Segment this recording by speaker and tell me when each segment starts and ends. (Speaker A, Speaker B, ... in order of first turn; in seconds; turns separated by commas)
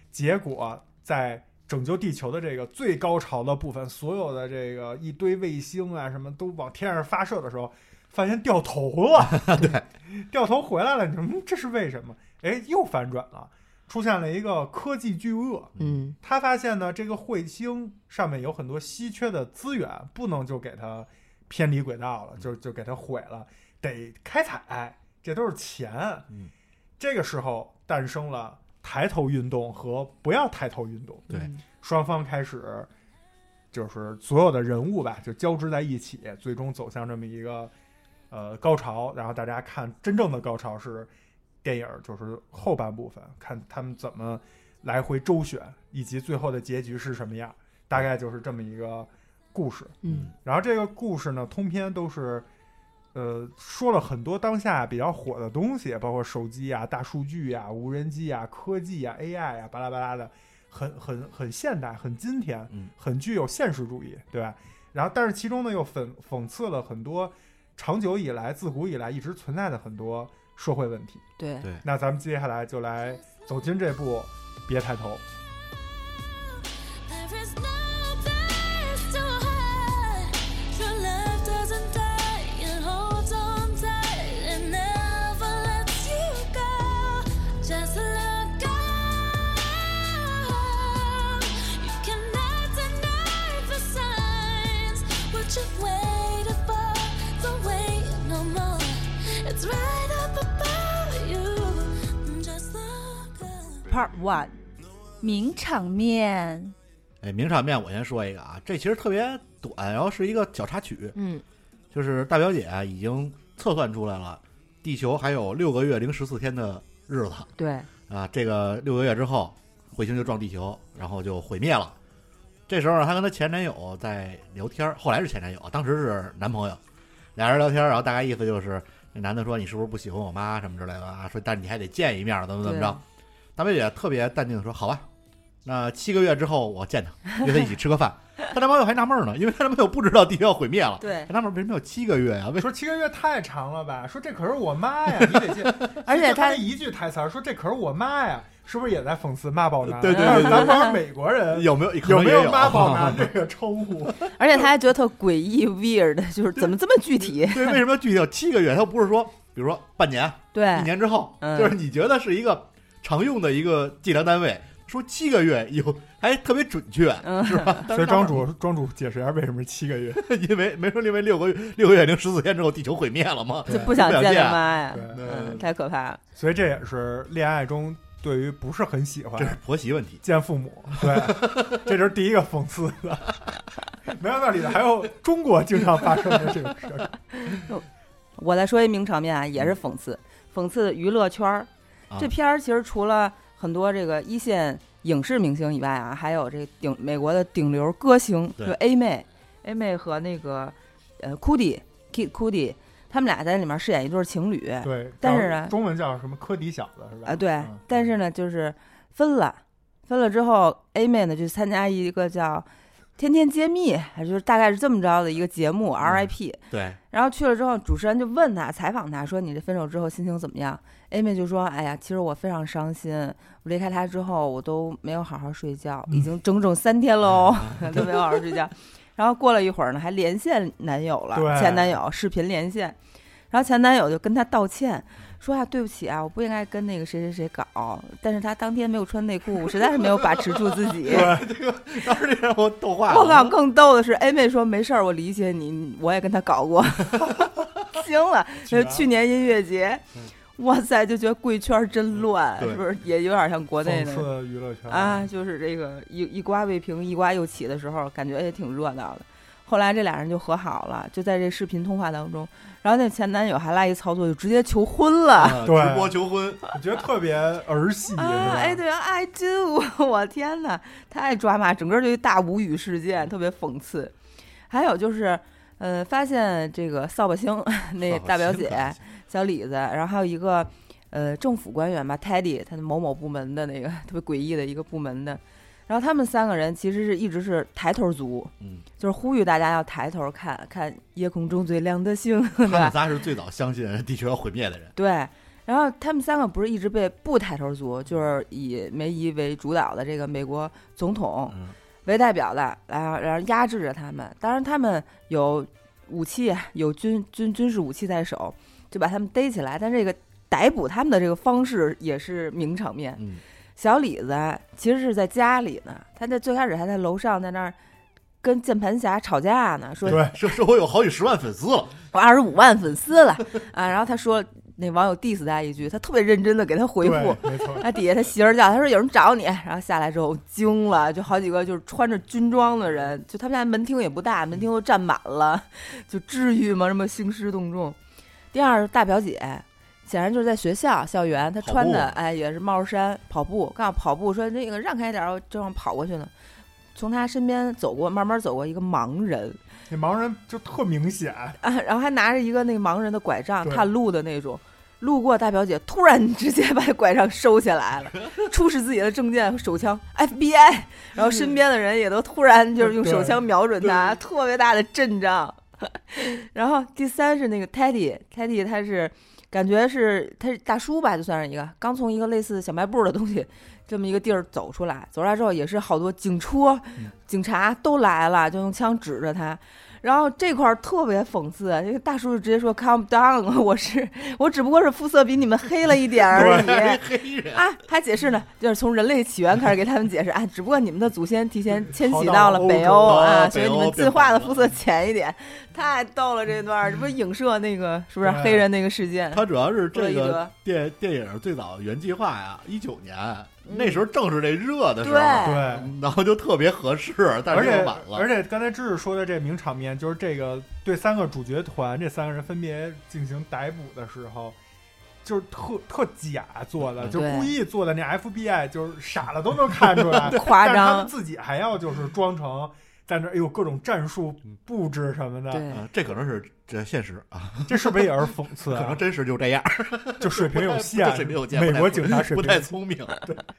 Speaker A: 0.1-26.3, Speaker B: 9.4-9.8, Speaker C: 15.8-16.2, Speaker A: 27.0-31.3, Speaker C: 31.3-31.6, Speaker A: 31.8-32.9, Speaker A: 33.7-37.7, Speaker A: 38.3-41.1, Speaker A: 41.6-52.5, Speaker C: 50.0-50.3, Speaker B: 50.1-50.3, Speaker A: 53.1-71.2, Speaker C: 71.4-71.7, Speaker A: 71.8-75.2, Speaker D: 76.1-103.9, Speaker C: 103.9-104.5, Speaker C: 105.2-106.8, Speaker B: 107.2-111.2, Speaker C: 111.2-111.4, Speaker B: 111.9-117.5, Speaker C: 117.6-117.9, Speaker B: 118.1-122.0, Speaker B: 122.7-126.8, Speaker B: 127.4-133.0, Speaker C: 132.6-133.0, Speaker B: 133.6-135.1, Speaker B: 135.6-142.7, Speaker C: 141.0-141.3, Speaker A: 142.6-154.7, Speaker B: 145.1-146.0, Speaker C: 146.1-146.6, Speaker B: 149.8-151.0, Speaker C: 150.1-150.9, Speaker B: 151.5-153.3, Speaker C: 154.4-157.8, Speaker B: 156.6-168.5, Speaker C: 160.5-161.8, Speaker C: 167.2-167.9, Speaker A: 167.9-170.2, Speaker B: 170.2-175.7, Speaker C: 173.7-176.2, Speaker A: 173.7-174.1, Speaker A: 174.9-175.6, Speaker A: 176.3-179.6, Speaker B: 179.4-180.2, Speaker A: 180.2-183.3, Speaker B: 181.0-181.6, Speaker A: 184.1-187.1, Speaker C: 187.4-187.8, Speaker C: 188.4-205.7, Speaker A: 204.8-207.8, Speaker C: 207.3-212.7, Speaker C: 213.2-216.6, Speaker B: 216.0-217.0, Speaker C: 217.1-233.0, Speaker B: 227.3-228.0, Speaker A: 231.3-232.0, Speaker C: 233.5-241.3, Speaker B: 239.8-243.6, Speaker A: 241.1-241.5, Speaker C: 243.1-250.0, Speaker A: 248.7-249.1, Speaker C: 250.6-254.3, Speaker A: 253.8-255.3, Speaker C: 254.9-265.6, Speaker B: 265.4-266.6, Speaker A: 265.6-268.8, Speaker C: 268.2-274.1, Speaker C: 274.7-293.0, Speaker B: 278.0-279.0, Speaker B: 288.6-288.9, Speaker B: 292.6-294.9, Speaker C: 295.0-313.2, Speaker B: 301.5-301.8, Speaker B: 313.2-313.4, Speaker C: 313.8-317.8, Speaker C: 318.4-320.2, Speaker B: 320.0-322.0, Speaker A: 320.1-320.4, Speaker C: 322.1-338.0, Speaker A: 327.0-327.9, Speaker C: 338.5-346.3, Speaker B: 341.6-342.1, Speaker C: 346.9-349.6, Speaker A: 349.9-351.6, Speaker C: 351.6-387.0, Speaker A: 353.6-353.9, Speaker A: 361.2-361.4, Speaker A: 362.8-364.1, Speaker B: 386.3-387.6, Speaker A: 386.3-386.8, Speaker C: 387.5-400.5, Speaker A: 391.8-393.2, Speaker B: 393.0-394.6, Speaker A: 398.2-398.7, Speaker B: 399.3-408.3, Speaker C: 403.6-404.0, Speaker C: 405.0-405.6, Speaker A: 405.4-405.9, Speaker A: 407.5-414.6, Speaker A: 415.2-425.7, Speaker C: 417.1-417.6, Speaker C: 420.3-421.1, Speaker C: 425.5-425.9, Speaker B: 425.7-433.2, Speaker A: 427.7-429.0, Speaker A: 430.2-433.4